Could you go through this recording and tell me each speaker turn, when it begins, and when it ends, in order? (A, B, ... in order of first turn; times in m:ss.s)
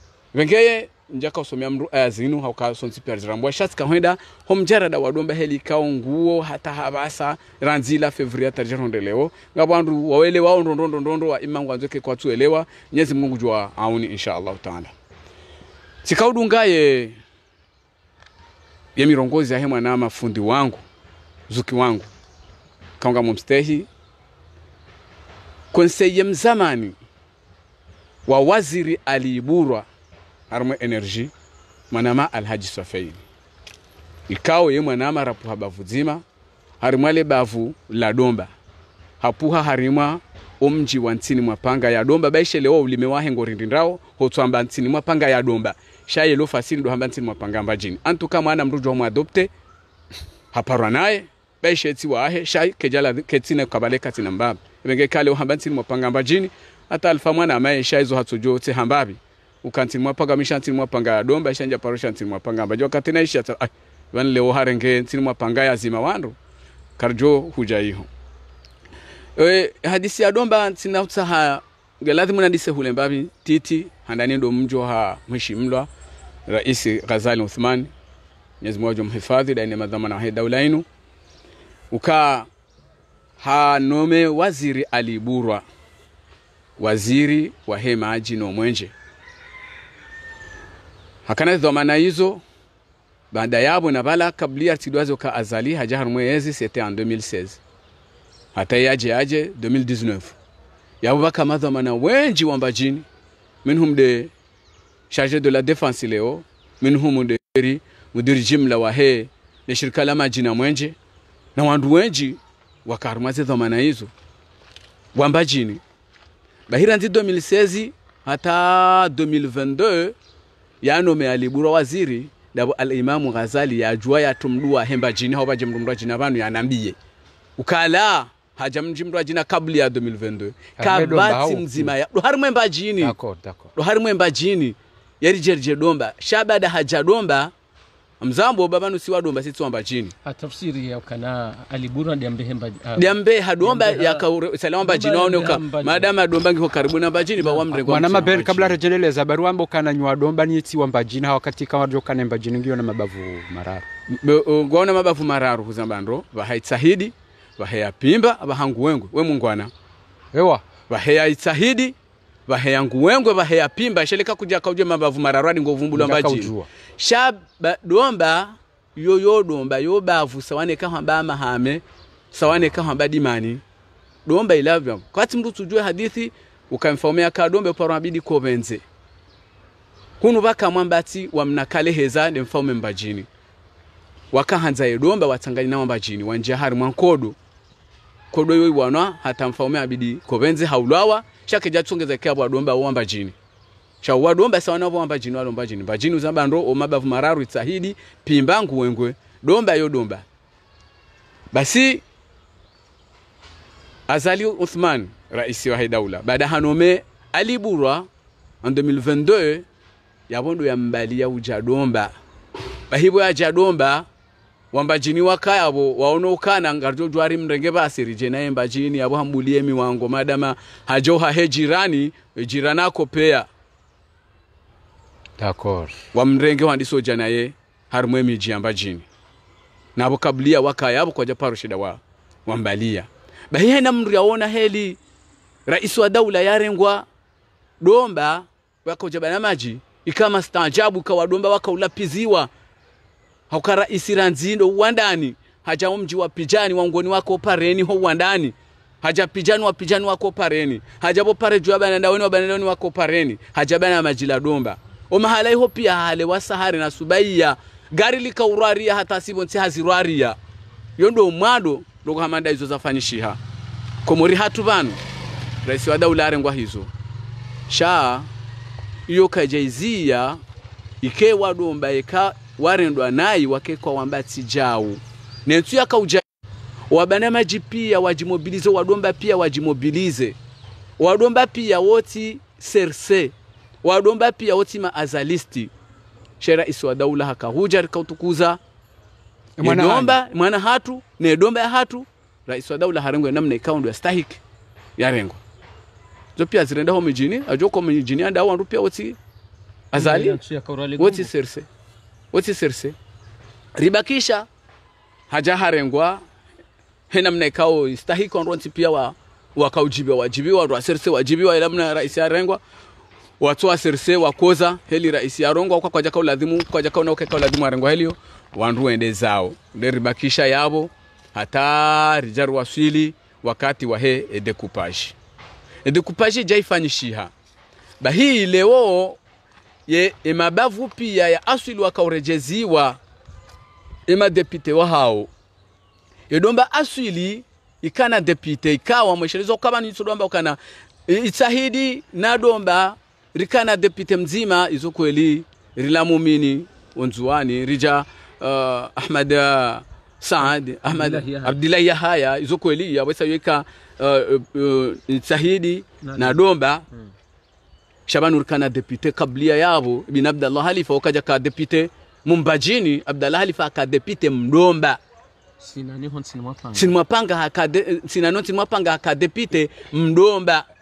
0:00.3-0:14.9 A
0:16.0-0:17.2 A
0:19.0-0:20.8 A
0:21.5-0:22.1 A
0:23.0-0:23.9 A
0:25.7-0:27.0 A
0:28.2-0:29.9 A
0:30.5-0:31.3 A
0:31.9-0:33.2 A
0:34.3-0:36.2 A
0:36.8-0:38.5 A
0:39.2-0:49.5 A
0:50.5-1:06.4 A
1:07.0-1:08.1 A
1:09.4-1:15.9 A
1:16.5-1:17.9 A
1:18.6-1:20.8 A
1:21.9-1:22.5 A
1:23.4-1:25.6 A
1:26.8-1:28.9 A
1:31.2-1:32.4 A
1:33.3-1:37.6 A
1:38.5-1:40.4 A
1:41.0-1:43.0 A
1:43.6-1:44.3 A
1:45.1-1:51.0 A
1:51.5-1:54.1 A
1:55.1-1:55.8 A
1:56.7-2:00.2 A
2:00.8-2:07.0 A
2:07.6-2:13.1 A
2:10.8-2:11.9 B
2:13.0-2:13.7 B
2:13.7-2:17.5 A
2:18.2-2:20.1 A
2:20.2-2:24.2 C
2:22.9-2:28.8 A
2:24.8-2:26.1 C
2:27.7-2:33.9 B
2:34.1-2:39.7 A
2:40.3-2:40.6 B
2:40.9-2:41.9 A
2:42.5-2:53.6 A
2:45.9-2:46.7 B
2:54.2-2:58.8 A
3:00.2-3:03.3 A
3:04.3-3:07.4 A
3:08.3-3:13.4 A
3:14.0-3:20.2 A
3:21.5-3:22.0 A
3:24.1-3:28.1 A
3:28.6-3:29.6 A
3:30.3-3:32.1 A
3:32.9-3:34.1 A
3:34.7-3:43.5 A
3:45.4-3:45.9 B
3:46.1-3:49.0 A
3:50.0-3:55.0 A
3:55.6-3:57.0 A
3:57.8-4:02.5 A
4:03.5-4:20.4 A
4:21.0-4:23.4 A
4:24.0-4:25.0 A
4:25.6-4:26.9 A
4:27.7-4:28.3 A
4:29.1-4:30.4 A
4:31.0-4:36.2 A
4:36.9-4:40.4 A
4:41.0-4:45.7 A
4:46.4-4:48.6 A
4:49.6-4:50.2 B
4:49.6-4:54.4 A
4:55.0-4:55.4 A
4:56.3-4:59.2 A
4:59.9-5:00.4 A
4:59.9-5:01.3 C
5:01.0-5:01.7 A
5:02.3-5:03.0 A
5:03.8-5:04.5 A
5:05.3-5:06.2 A
5:07.1-5:12.6 A
5:13.4-5:25.2 A
5:25.8-5:27.3 A
5:28.0-5:29.2 A
5:29.9-5:33.0 A
5:34.1-5:35.3 A
5:36.3-5:56.8 A
5:50.8-5:51.6 C
5:56.0-5:56.4 C
5:58.1-6:05.0 A
6:05.6-6:06.9 C
6:06.7-6:10.6 A